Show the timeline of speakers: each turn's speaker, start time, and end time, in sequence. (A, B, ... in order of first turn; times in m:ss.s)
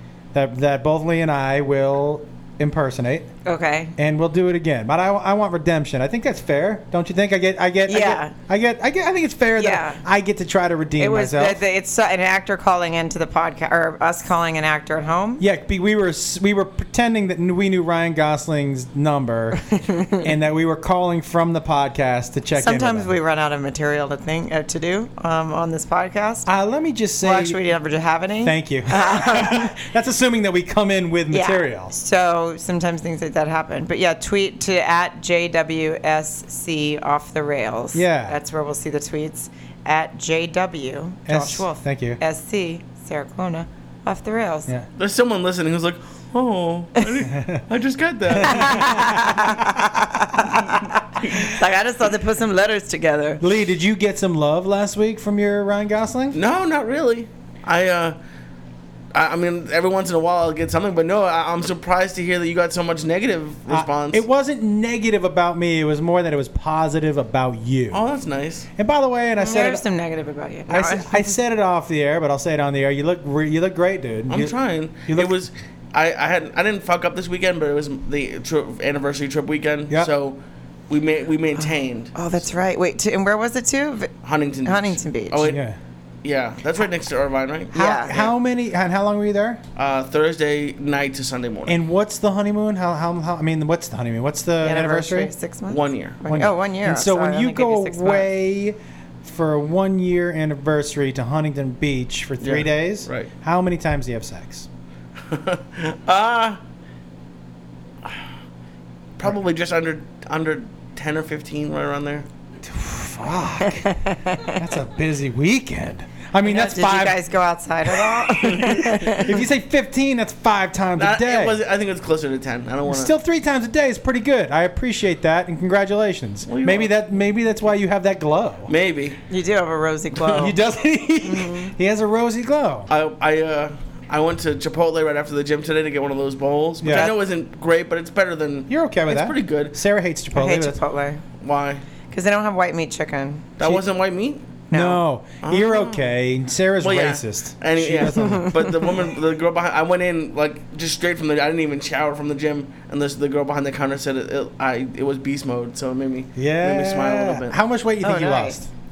0:00.3-0:03.3 A
0:03.4-0:04.0 B
0:04.0-0:11.6 A
0:07.9-0:08.4 B
0:09.6-0:10.0 B
0:11.0-0:15.4 B
0:15.4-0:23.1 A
0:22.6-0:26.5 B
0:26.5-0:27.6 A
0:27.2-0:29.8 B
0:28.4-0:32.0 A
0:31.3-0:44.7 B
0:37.9-0:38.4 A
0:41.3-0:42.2 A
0:45.0-0:49.3 C
0:47.3-0:47.6 A
0:48.3-0:49.5 A
0:48.5-0:53.4 B
0:51.2-0:51.5 C
0:53.4-0:56.4 A
0:56.3-0:58.2 C
0:59.1-1:04.2 C
1:03.7-1:08.0 A
1:07.9-1:08.7 C
1:08.8-1:09.8 A
1:09.4-1:11.3 B
1:10.7-1:15.4 A
1:14.3-1:22.1 C
1:22.1-1:24.1 B
1:24.2-1:25.6 C
1:24.6-1:25.4 B
1:25.4-1:25.8 A
1:26.2-1:28.3 C
1:27.7-1:29.6 A
1:27.8-1:28.1 B
1:29.8-1:31.8 C
1:31.7-1:35.3 A
1:34.6-1:38.3 B
1:35.7-1:36.2 C
1:36.3-1:44.7 A
1:42.4-1:43.3 C
1:45.3-1:46.6 C
1:49.2-1:52.3 C
1:52.6-1:57.2 A
1:53.8-1:54.5 B
1:56.4-1:59.4 B
1:58.1-2:01.6 A
1:58.4-1:59.2 C
2:01.0-2:03.1 C
2:02.9-2:08.7 A
2:06.5-2:06.9 C
2:08.7-2:09.2 C
2:09.3-2:10.6 B
2:10.2-2:12.9 A
2:11.2-2:11.7 B
2:12.9-2:19.8 C
2:16.8-2:17.2 A
2:18.7-2:20.8 A
2:20.3-2:21.2 B
2:21.4-2:21.8 C
2:22.1-2:23.5 B
2:23.6-2:24.5 C
2:24.7-2:25.0 B
2:24.7-2:28.9 A
2:25.4-2:26.1 C
2:26.8-2:37.6 C
2:36.4-2:38.7 A
2:38.0-2:38.6 B